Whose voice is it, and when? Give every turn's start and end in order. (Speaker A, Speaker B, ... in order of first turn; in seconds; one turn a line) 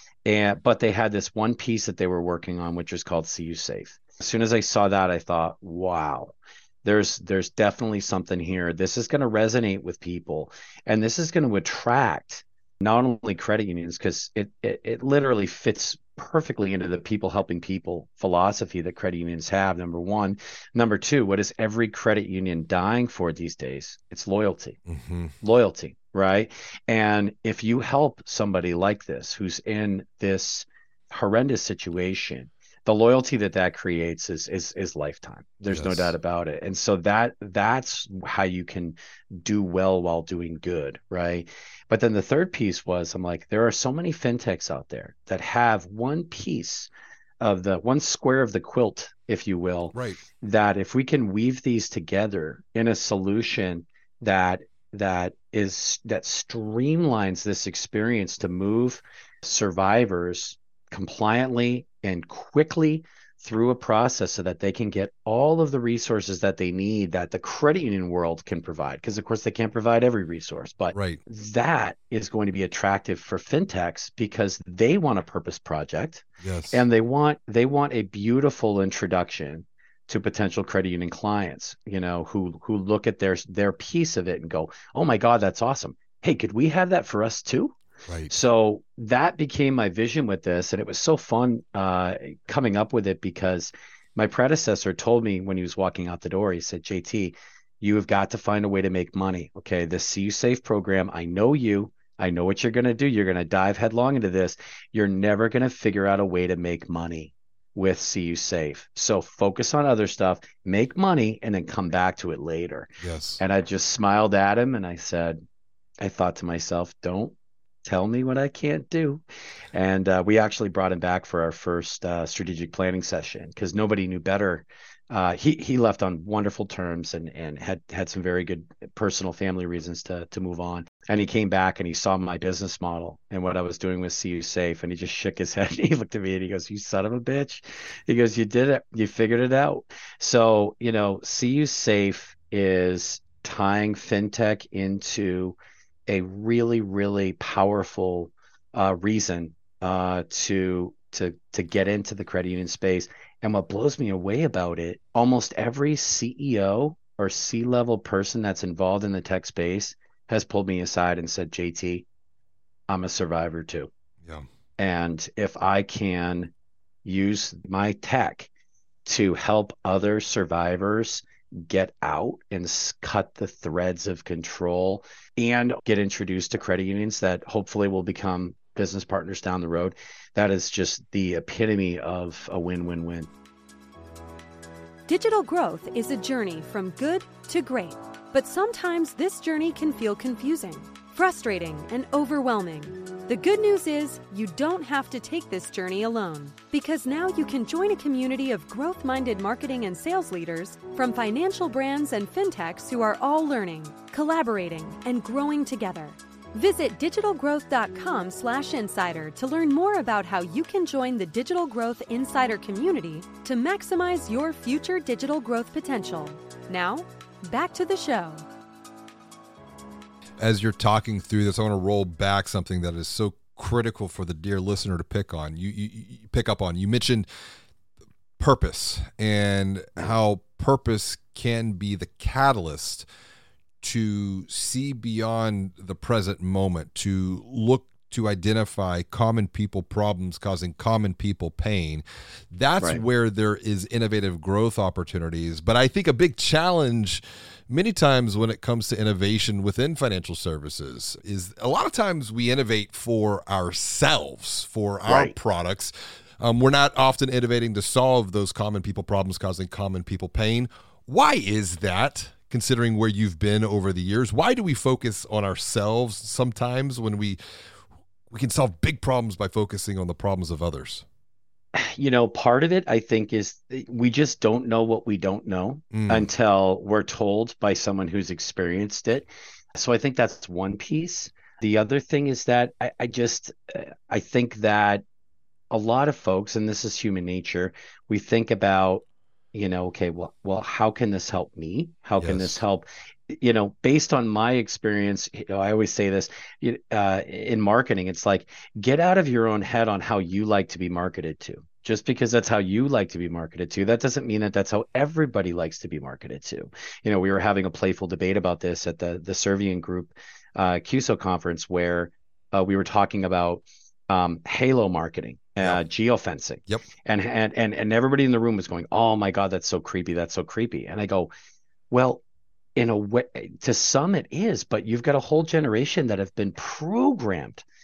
Speaker A: 0.2-24.8
Speaker B: 24.9-25.3
Speaker A: 25.4-46.9
Speaker B: 35.7-36.1
Speaker A: 47.4-87.8
Speaker B: 49.9-50.2
Speaker B: 70.9-71.2
Speaker B: 76.4-76.8
Speaker A: 88.3-115.4
Speaker B: 113.0-113.4
Speaker A: 116.0-117.3
Speaker A: 117.8-119.2
Speaker A: 119.7-145.6
Speaker A: 146.1-162.1
Speaker A: 162.9-163.9
Speaker A: 164.8-166.5
Speaker A: 167.0-168.5
Speaker A: 169.1-183.3
Speaker C: 185.1-218.4
Speaker B: 220.4-227.2
Speaker B: 228.4-233.1
Speaker B: 233.8-267.4
Speaker A: 255.1-255.3
Speaker B: 268.3-271.0
Speaker A: 271.7-285.0
Speaker B: 275.9-276.3
Speaker A: 285.7-321.3
Speaker B: 292.2-292.6
Speaker A: 321.9-322.2
Speaker A: 322.8-327.6